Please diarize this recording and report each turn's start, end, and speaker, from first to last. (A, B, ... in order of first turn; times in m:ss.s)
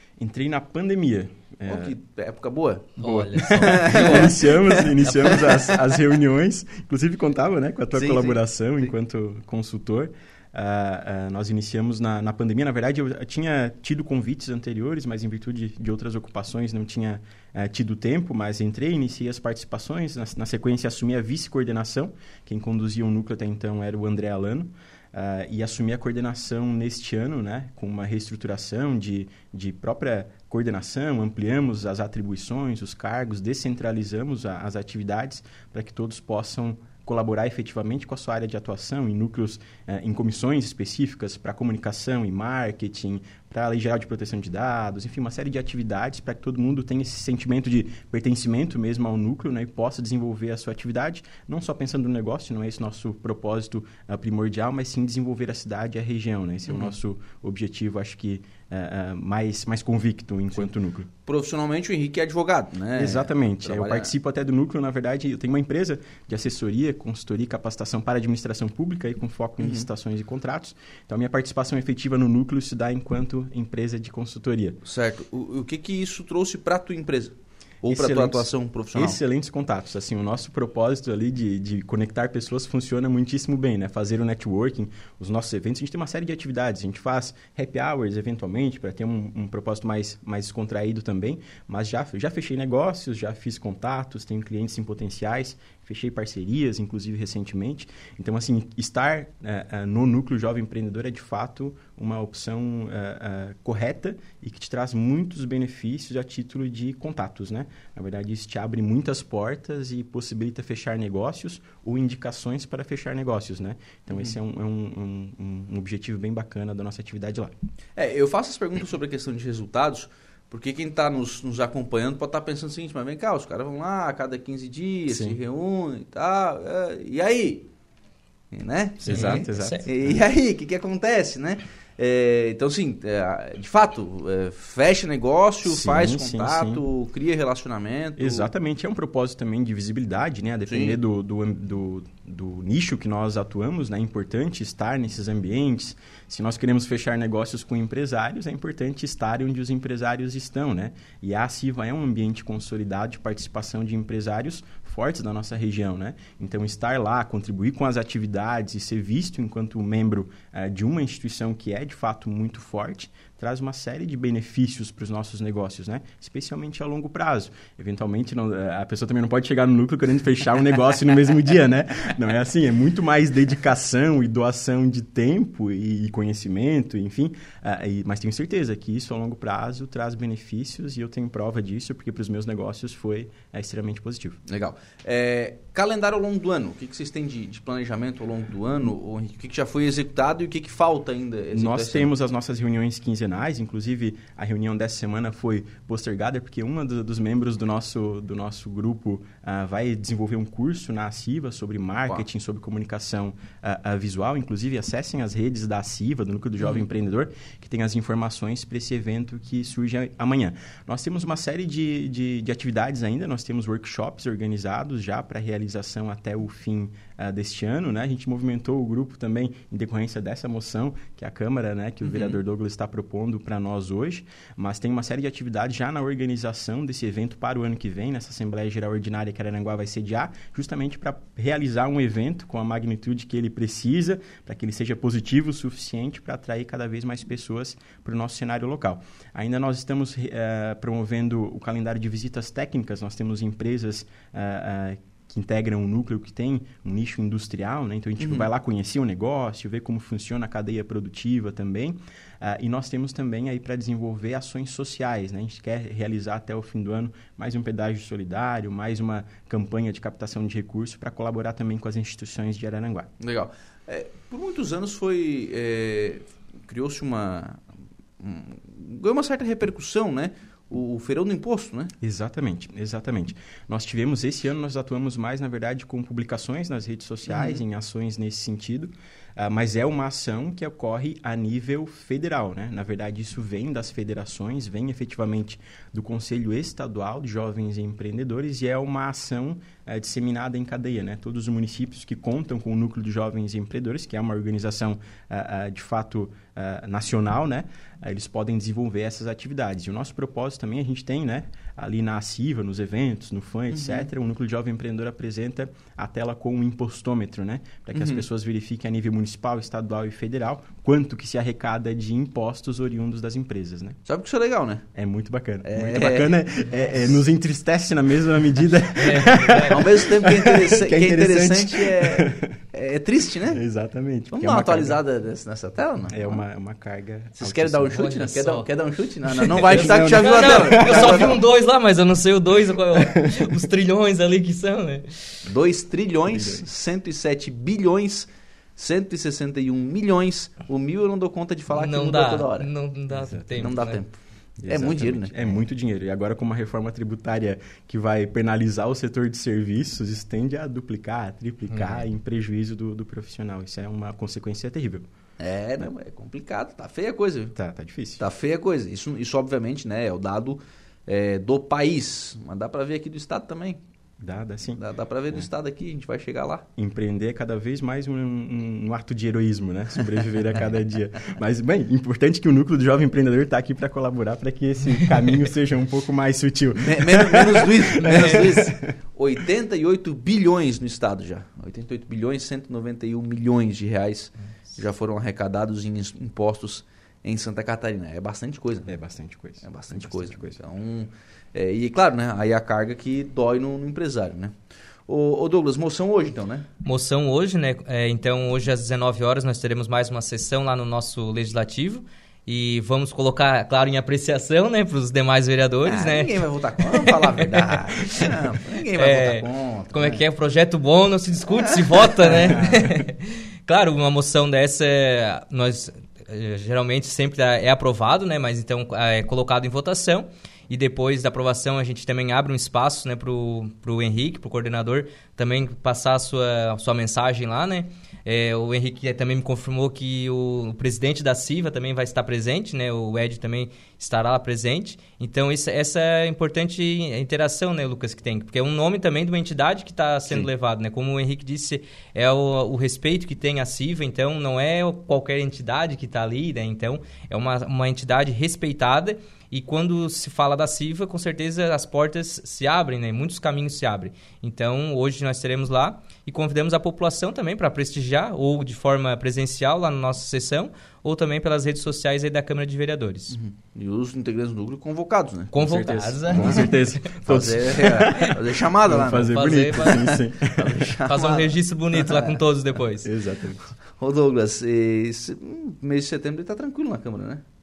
0:00.2-0:01.9 A
0:01.7-0:05.6 B
0:03.0-0:04.4 C
0:03.0-1:01.1 A
0:05.2-0:05.7 C
0:07.9-0:08.9 B
0:56.7-0:56.9 B
1:01.2-1:04.1 B
1:02.9-1:14.8 A
1:09.6-1:09.9 B
1:14.8-1:19.2 B
1:17.9-1:57.5 A
1:58.0-2:07.7 B
2:05.1-2:05.4 A
2:08.5-2:18.5 B
2:09.0-2:10.2 A
2:09.1-2:09.9 C
2:15.6-2:16.8 A
2:18.2-3:04.4 A
2:20.6-2:21.0 B
3:04.5-3:12.1 B
3:11.5-4:23.1 A
3:26.6-3:26.8 B
3:42.0-3:42.4 B
4:08.2-4:08.5 B
4:23.2-4:27.6 B
4:28.2-4:31.9 B
4:32.0-5:14.0 A
4:37.3-4:37.6 B
5:03.7-5:04.1 B
5:07.9-5:08.2 B
5:14.0-5:14.8 B
5:14.9-5:22.5 A
5:15.6-5:16.5 B
5:19.0-5:19.8 C
5:19.6-5:23.6 B
5:23.5-5:25.0 A
5:24.3-5:26.4 B
5:26.1-5:28.1 A
5:27.4-5:31.4 B
5:27.9-5:28.7 C
5:29.3-5:35.0 C
5:29.6-5:31.4 A
5:32.9-5:33.6 A
5:35.4-5:42.7 B
5:36.3-5:36.6 A
5:41.7-5:44.1 C
5:43.1-5:43.6 A
5:43.5-5:45.4 B
5:44.6-5:55.0 A
5:51.7-5:52.0 C
5:55.4-5:57.6 B
5:57.6-5:58.2 A
5:58.2-6:03.8 B
6:04.2-6:05.5 A
6:04.8-6:06.6 B
6:06.8-6:18.9 A
6:16.7-6:28.9 B
6:28.9-6:30.6 A
6:29.6-6:34.5 B
6:35.1-6:36.7 B
6:36.8-6:48.3 C
6:45.8-6:50.2 B
6:48.9-7:43.4 C
6:51.7-6:52.6 B
7:43.3-7:45.5 B
7:45.5-7:46.7 C
7:45.6-7:50.8 A
7:46.3-7:46.7 B
7:47.2-7:49.4 B
7:49.3-7:50.1 C
7:50.6-7:52.3 B
7:51.0-7:53.1 C
7:53.0-7:53.7 A
7:53.9-7:57.4 B